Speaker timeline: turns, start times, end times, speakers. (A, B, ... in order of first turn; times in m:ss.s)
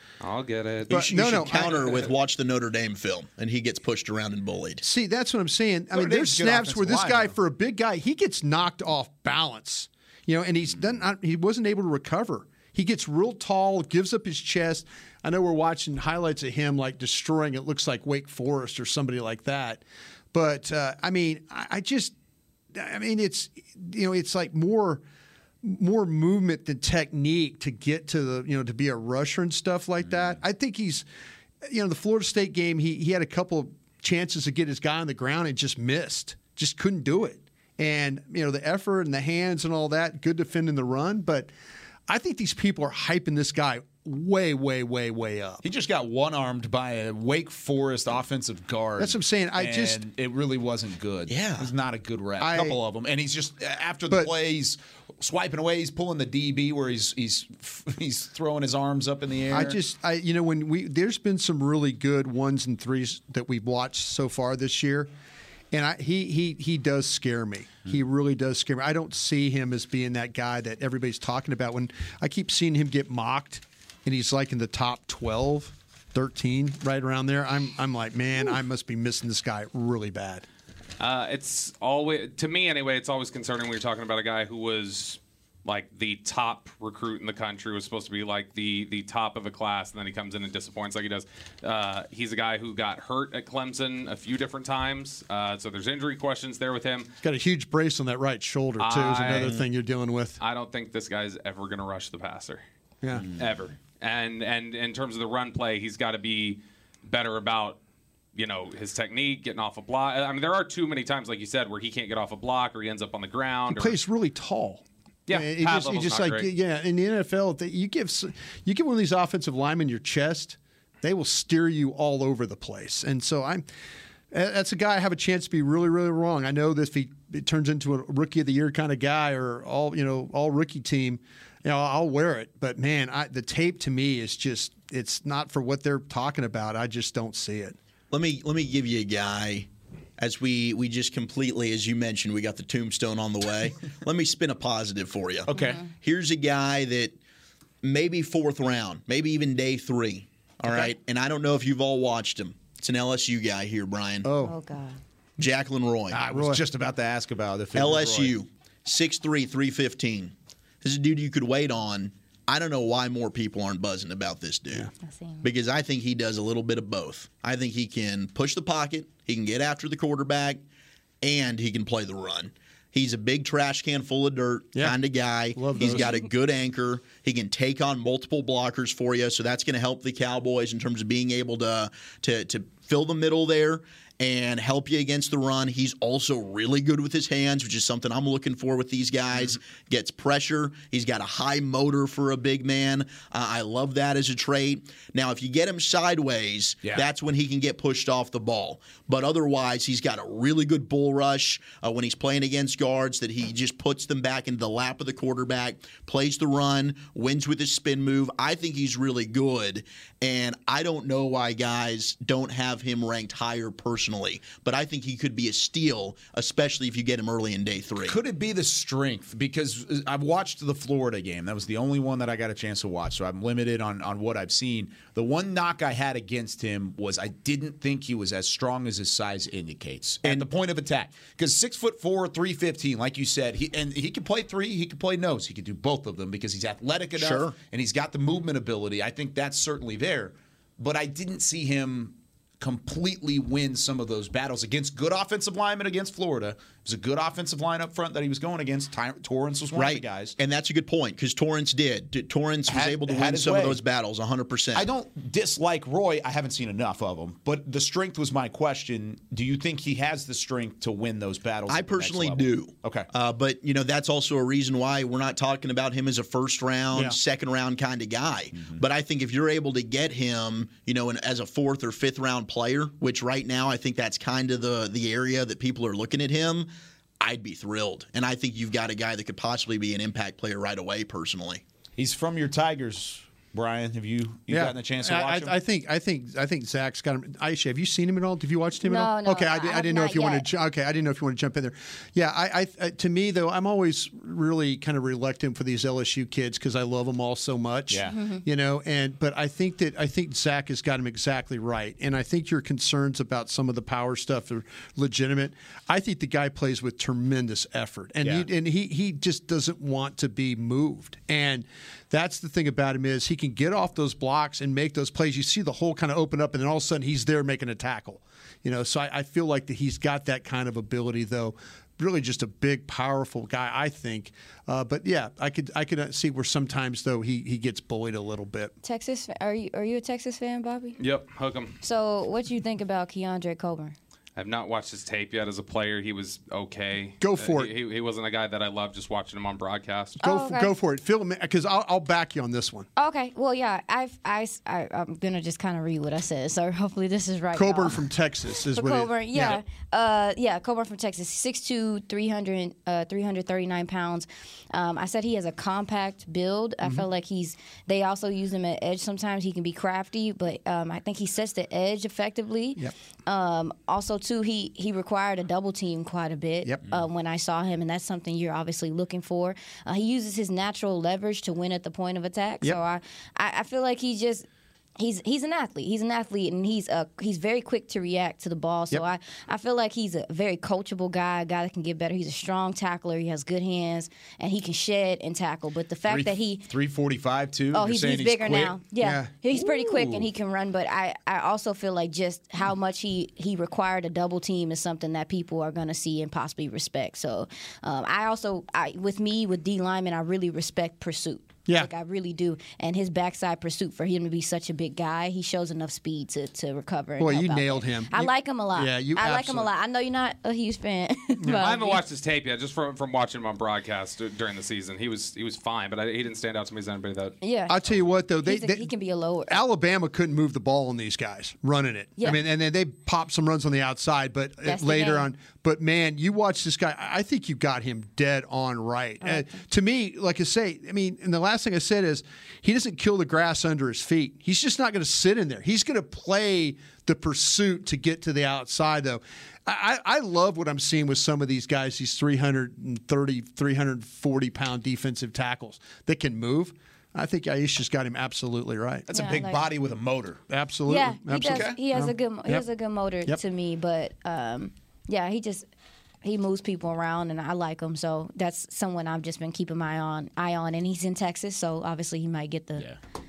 0:00.2-0:02.1 A
0:00.9-0:01.9 B
0:00.9-0:04.8 C
0:04.8-0:22.1 B
0:05.9-0:07.4 D
0:22.7-0:25.0 B
0:25.6-0:31.0 B
0:31.7-0:41.5 B
0:42.1-0:45.6 B
0:45.6-0:59.8 D
0:49.0-0:50.0 B
0:51.3-0:51.7 C
0:52.4-0:52.8 B
0:59.5-1:05.1 B
1:05.7-1:20.4 B
1:21.0-1:37.1 A
1:37.2-1:40.4 B
1:38.8-1:39.6 A
1:40.4-1:42.6 A
1:43.4-1:47.8 A
1:48.4-1:54.0 A
1:53.7-2:03.6 B
1:55.3-1:56.5 A
2:04.3-2:17.8 B
2:18.1-2:27.1 C
2:25.5-2:25.8 D
2:25.5-2:25.8 E
2:27.8-2:34.3 C
2:30.7-2:30.9 D
2:34.2-2:34.6 B
2:34.4-2:35.0 E
2:35.4-2:36.2 C
2:36.1-2:38.4 D
2:36.2-2:36.6 B
2:37.7-2:44.9 C
2:45.0-2:45.4 E
2:45.4-2:50.6 C
2:51.2-3:38.2 C
2:55.5-2:56.1 B
3:38.0-4:10.4 D
3:57.1-3:57.6 C
4:09.7-4:14.9 C
4:12.7-4:13.8 D
4:14.7-4:23.1 D
4:21.7-4:36.7 C
4:28.5-4:28.8 D
4:37.2-4:41.6 C
4:42.0-4:45.5 D
4:44.5-5:28.7 B
4:48.8-4:50.5 E
4:57.9-4:58.2 D
4:58.0-4:58.4 E
5:08.2-5:08.5 D
5:28.8-5:31.0 E
5:31.0-5:31.8 A
5:31.8-5:34.0 E
5:34.4-5:40.2 A
5:37.2-5:37.7 B
5:40.2-5:42.9 B
5:40.2-5:40.7 E
5:43.0-5:48.0 E
5:47.5-5:49.6 B
5:48.7-6:14.5 E
6:15.0-6:26.6 E
6:26.1-6:28.8 D
6:27.7-6:52.0 E
6:29.0-6:29.3 B
6:29.6-6:30.3 D
6:47.2-6:49.7 B
6:51.4-6:51.9 B
6:51.5-6:57.4 A
6:57.4-6:57.8 E
6:57.7-6:58.9 B
6:58.4-6:59.6 E
6:59.5-7:29.1 B
7:04.6-7:05.3 E
7:09.2-7:09.6 E
7:29.1-7:30.4 D
7:29.1-7:29.7 E
7:30.5-7:32.6 B
7:30.9-7:35.7 E
7:31.4-7:31.8 D
7:36.2-7:42.9 E